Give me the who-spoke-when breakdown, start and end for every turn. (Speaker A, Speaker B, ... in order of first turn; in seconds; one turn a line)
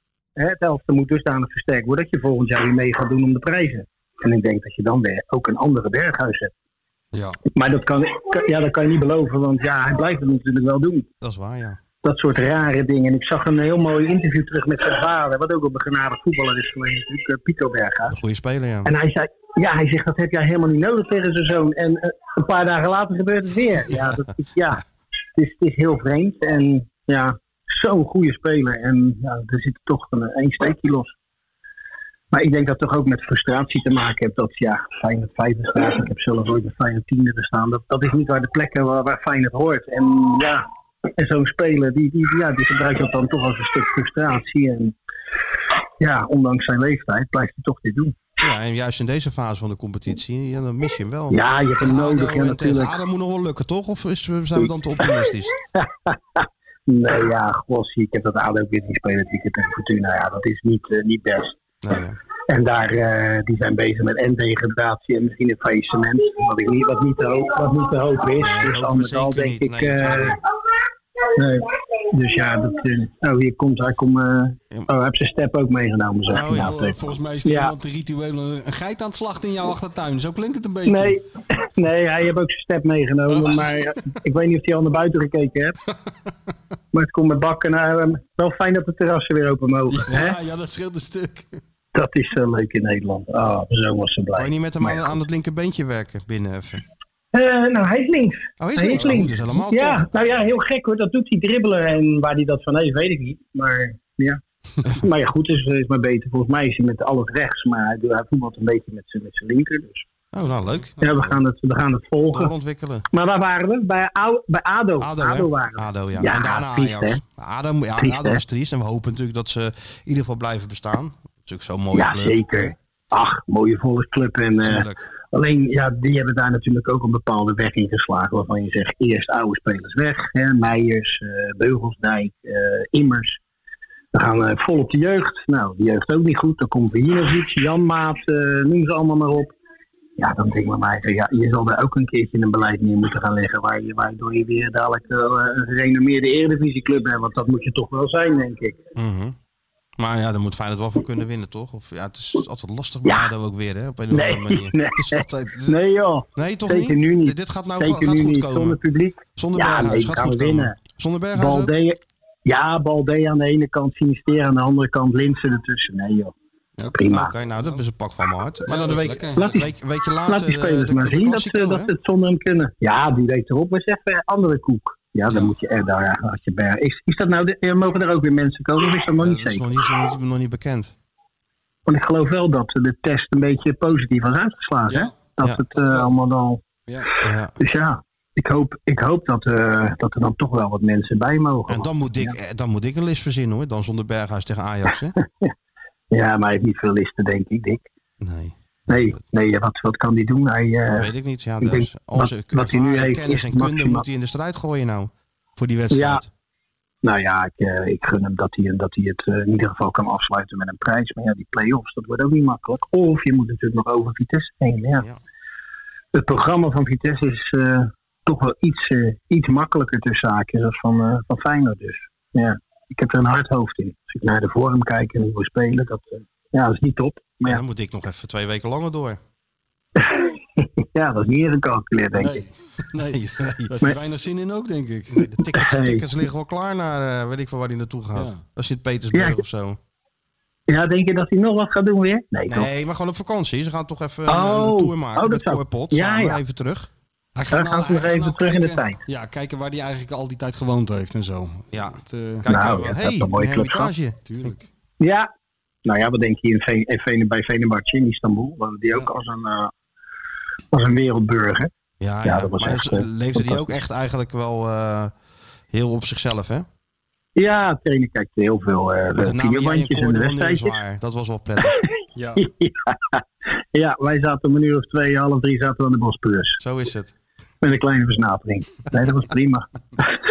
Speaker A: 0.3-6.5
Speaker B: 7.1-7.4
Speaker A: 7.5-11.1
Speaker C: 11.2-11.8
Speaker A: 12.0-18.1
Speaker C: 18.1-18.9
Speaker A: 18.8-24.8
Speaker A: 25.3-31.1
Speaker A: 32.3-40.6
Speaker A: 41.2-44.9
Speaker A: 46.0-48.1
Speaker C: 48.4-55.5
Speaker A: 51.3-52.9
Speaker A: 54.6-55.1
Speaker A: 55.8-61.6
Speaker C: 61.8-62.2
Speaker A: 62.5-70.4
Speaker C: 68.4-70.4
Speaker A: 71.3-77.7
Speaker C: 76.3-76.9
Speaker B: 76.5-81.2
Speaker A: 80.8-85.8
Speaker B: 83.3-83.9
Speaker A: 86.9-90.4
Speaker B: 90.0-91.6
Speaker A: 91.9-95.1
Speaker C: 94.3-96.8
Speaker A: 97.3-104.4
Speaker C: 98.6-100.1
Speaker B: 98.9-99.3
Speaker A: 104.9-110.1
Speaker C: 110.3-111.0
Speaker B: 111.0-111.3
Speaker A: 111.0-112.5
Speaker C: 112.3-113.1
Speaker A: 113.1-117.2
Speaker C: 115.0-122.7
Speaker A: 118.0-118.4
Speaker A: 121.9-133.4
Speaker C: 124.6-125.0
Speaker A: 134.1-139.5
Speaker A: 140.2-148.8
Speaker C: 148.9-149.3
Speaker C: 150.0-155.8
Speaker A: 154.1-160.8
Speaker C: 156.3-158.8
Speaker C: 159.3-161.7
Speaker A: 161.3-166.3
Speaker A: 166.9-167.3
Speaker C: 167.1-171.9
Speaker B: 167.5-167.8
Speaker B: 168.7-169.6
Speaker A: 169.4-169.7
Speaker A: 170.2-179.6
Speaker B: 175.3-175.5
Speaker C: 179.2-180.9
Speaker A: 181.8-186.6
Speaker B: 184.9-185.2
Speaker B: 185.8-186.1
Speaker C: 187.2-187.5
Speaker A: 187.6-192.3
Speaker C: 191.7-195.1
Speaker A: 195.2-195.5
Speaker A: 196.1-197.9
Speaker C: 198.2-199.2
Speaker A: 198.9-204.0
Speaker C: 200.9-206.3
Speaker A: 205.9-206.2
Speaker A: 207.0-215.1
Speaker A: 216.1-227.6
Speaker C: 227.4-229.2
Speaker A: 229.9-232.4
Speaker B: 232.1-235.2
Speaker C: 233.1-233.7
Speaker C: 235.1-239.8
Speaker A: 235.5-236.0
Speaker B: 238.1-238.4
Speaker A: 239.1-239.4
Speaker A: 240.7-242.7
Speaker C: 242.5-246.9
Speaker A: 244.3-246.4
Speaker B: 247.3-252.5
Speaker A: 247.4-249.0
Speaker C: 251.7-254.5
Speaker A: 252.5-253.9
Speaker B: 254.2-254.7
Speaker A: 255.0-255.3
Speaker A: 255.8-259.7
Speaker A: 260.7-261.7
Speaker C: 262.0-265.1
Speaker A: 262.2-263.6
Speaker C: 265.7-266.6
Speaker A: 267.4-270.7
Speaker C: 269.1-271.8
Speaker B: 272.1-272.4
Speaker A: 272.4-276.6
Speaker C: 276.6-277.1
Speaker A: 277.6-280.2